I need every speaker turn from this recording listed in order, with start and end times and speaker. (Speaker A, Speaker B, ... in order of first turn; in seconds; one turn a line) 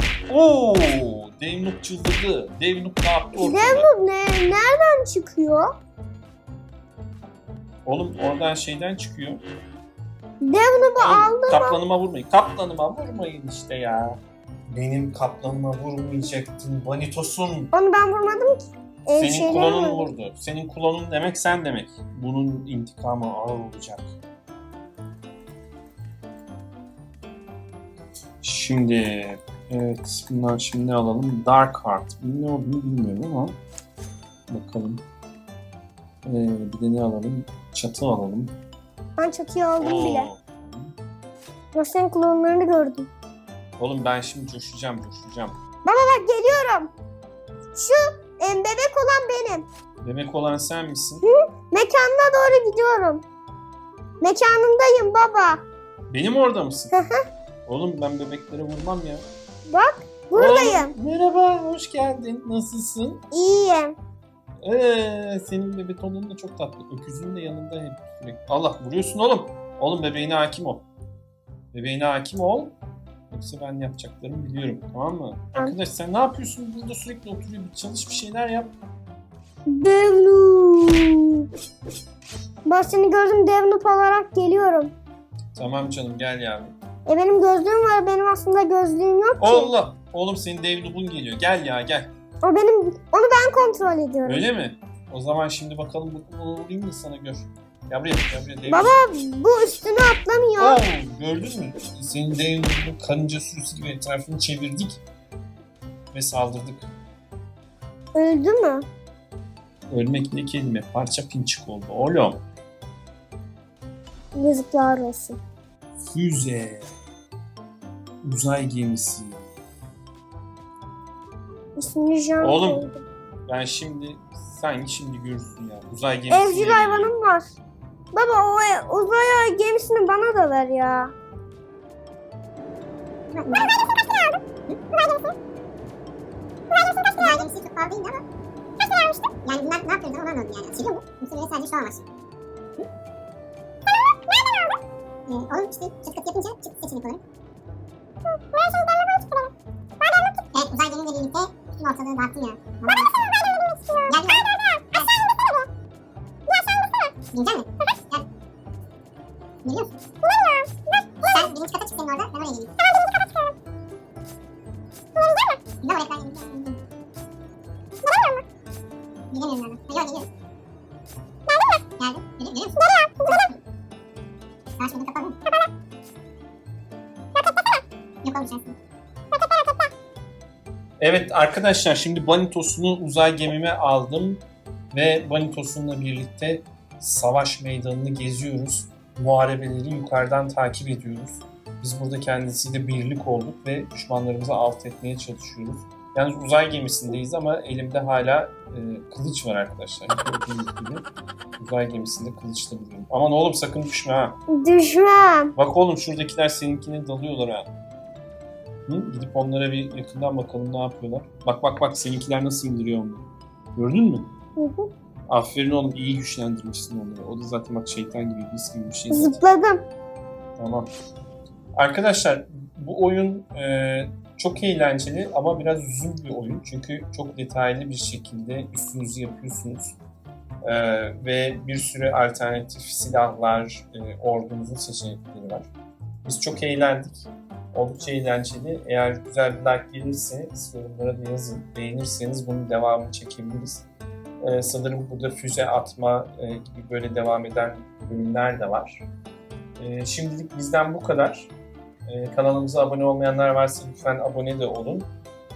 Speaker A: 0.3-3.9
Speaker B: 3.4-5.8
Speaker A: 7.8-9.4
Speaker B: 10.4-11.8
Speaker A: 11.0-17.7
Speaker B: 17.7-20.1
Speaker A: 19.2-24.1
Speaker A: 28.4-33.6
Speaker A: 34.5-35.0
Speaker A: 36.2-38.5
Speaker B: 39.2-40.3
Speaker A: 39.8-40.9
Speaker B: 41.7-43.1
Speaker A: 43.8-45.6
Speaker B: 45.9-46.9
Speaker B: 47.7-49.7
Speaker A: 50.0-51.2
Speaker B: 51.2-53.2
Speaker B: 54.2-55.6
Speaker A: 56.1-56.9
Speaker B: 56.9-57.2
Speaker A: 57.7-59.2
Speaker B: 59.7-61.0
Speaker A: 60.3-63.2
Speaker B: 63.3-64.0
Speaker A: 64.6-70.8
Speaker A: 71.7-72.8
Speaker A: 73.3-78.7
Speaker B: 79.7-81.5
Speaker B: 82.7-84.9
Speaker A: 85.5-86.7
Speaker B: 87.1-89.7
Speaker A: 89.4-92.1
Speaker B: 92.4-94.5
Speaker A: 94.2-99.0
Speaker B: 98.7-100.8
Speaker A: 100.6-105.0
Speaker A: 106.1-106.9
Speaker B: 108.2-108.9
Speaker A: 109.9-112.4
Speaker B: 114.3-115.4
Speaker A: 116.0-116.9
Speaker A: 118.2-119.5
Speaker B: 121.8-123.0
Speaker A: 122.4-122.9
Speaker A: 123.5-127.1
Speaker B: 126.3-127.5
Speaker B: 128.1-131.1
Speaker C: 133.3-134.3
Speaker C: 137.1-138.2
Speaker C: 138.8-142.1
Speaker C: 144.3-144.7
Speaker C: 145.3-147.2
Speaker C: 148.5-149.5
Speaker C: 150.0-155.7
Speaker B: 153.7-154.1
Speaker C: 156.6-158.3
Speaker C: 159.6-160.6
Speaker C: 161.2-163.4
Speaker C: 165.2-166.8
Speaker C: 168.0-168.4
Speaker C: 169.3-170.3
Speaker C: 171.5-173.6
Speaker C: 174.8-175.5
Speaker C: 177.4-178.8
Speaker C: 179.4-179.7
Speaker A: 181.0-201.1
Speaker A: 201.6-204.4
Speaker B: 204.5-205.5
Speaker A: 205.6-207.7
Speaker A: 208.9-214.3
Speaker B: 214.6-214.9
Speaker A: 215.3-219.4
Speaker B: 219.1-219.8
Speaker A: 220.6-220.9
Speaker A: 221.8-230.0
Speaker A: 230.6-235.7
Speaker A: 236.2-243.9
Speaker A: 244.4-249.1
Speaker A: 249.8-251.5
Speaker A: 252.1-255.1